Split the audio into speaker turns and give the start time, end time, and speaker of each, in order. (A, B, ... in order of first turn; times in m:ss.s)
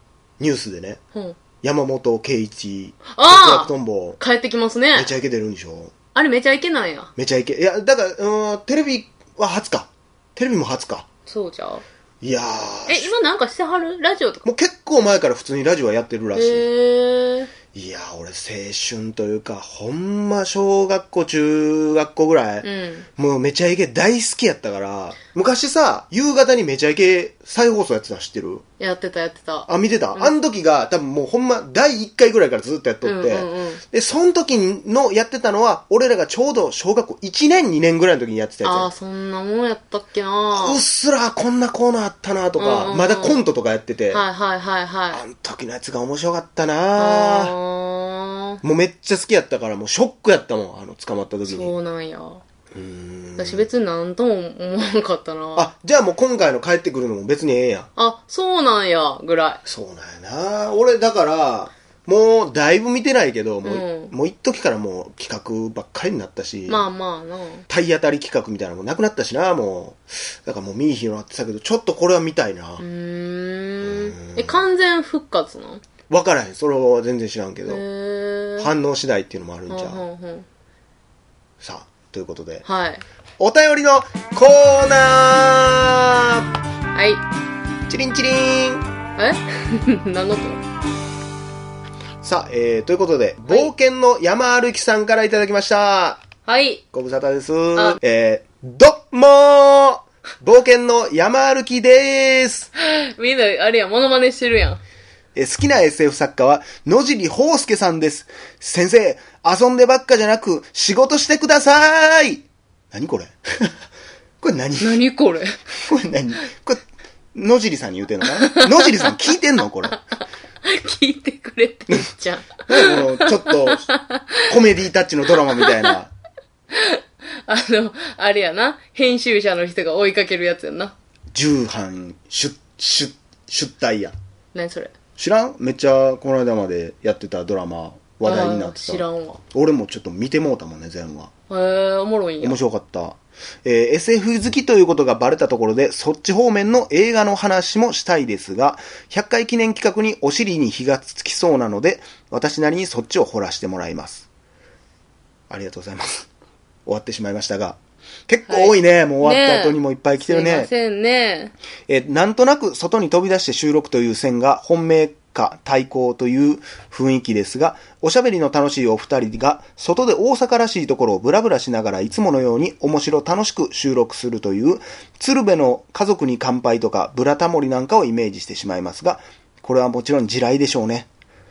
0:00.4-0:01.0 A
0:01.6-0:04.2 A
0:03.1-0:05.1 B
0:04.9-0:05.9 A
0:06.1-0:07.1 B
0:07.2-0:11.1 A
0:11.3-0:11.8 B
0:12.2-0:13.1 A
0:12.9-0:14.4 B
0:14.4-0:16.6 A
0:16.3-0:17.5 B
0:17.7-0:28.6 A
0:22.6-0:23.0 B
0:28.8-0:30.3 B
0:29.7-0:38.9 A
0:33.0-0:33.8 B
0:38.6-0:40.8 B
0:40.5-0:44.2 A
0:42.6-0:43.4 B
0:44.1-0:45.2 B
0:45.1-0:47.5 A
0:47.0-0:48.6 B
0:48.6-0:51.7 A
0:51.4-0:52.4 B
0:52.7-0:53.7 A
0:53.4-0:55.7 B
0:55.6-0:57.9 A
0:58.0-0:59.6 B
0:59.6-1:06.9 A
1:03.6-1:04.1 B
1:06.7-1:07.6 B
1:07.7-1:12.8 A
1:12.8-1:15.8 B
1:13.8-1:14.6 A
1:16.1-1:17.8 A
1:17.7-1:18.7 B
1:18.6-1:20.0 A
1:19.7-1:20.4 B
1:21.6-1:22.6 A
1:22.6-1:23.0 B
1:23.4-1:26.4 A
1:26.9-1:27.2 B
1:27.9-1:28.8 A
1:29.2-1:30.6 B
1:32.2-1:36.2 A
1:36.4-1:36.8 B
1:36.9-1:42.7 A
1:42.8-1:44.8 B
1:45.3-1:53.7 A
1:54.4-1:55.0 A
1:54.8-1:55.5 B
1:55.9-1:56.8 A
1:57.3-2:00.0 A
1:58.3-1:59.2 B
2:00.6-2:04.4 B
2:02.7-2:03.9 A
2:04.5-2:06.1 A
2:05.5-2:05.9 B
2:06.7-2:10.9 B
2:11.3-2:14.1 A
2:14.5-2:14.9 B
2:15.2-2:21.3 A
2:18.2-2:19.4 B
2:21.5-2:22.6 B
2:22.4-2:34.3 A
2:35.5-2:36.3 A
2:36.8-2:40.7 A
2:38.5-2:41.5 B
2:41.9-3:01.1 A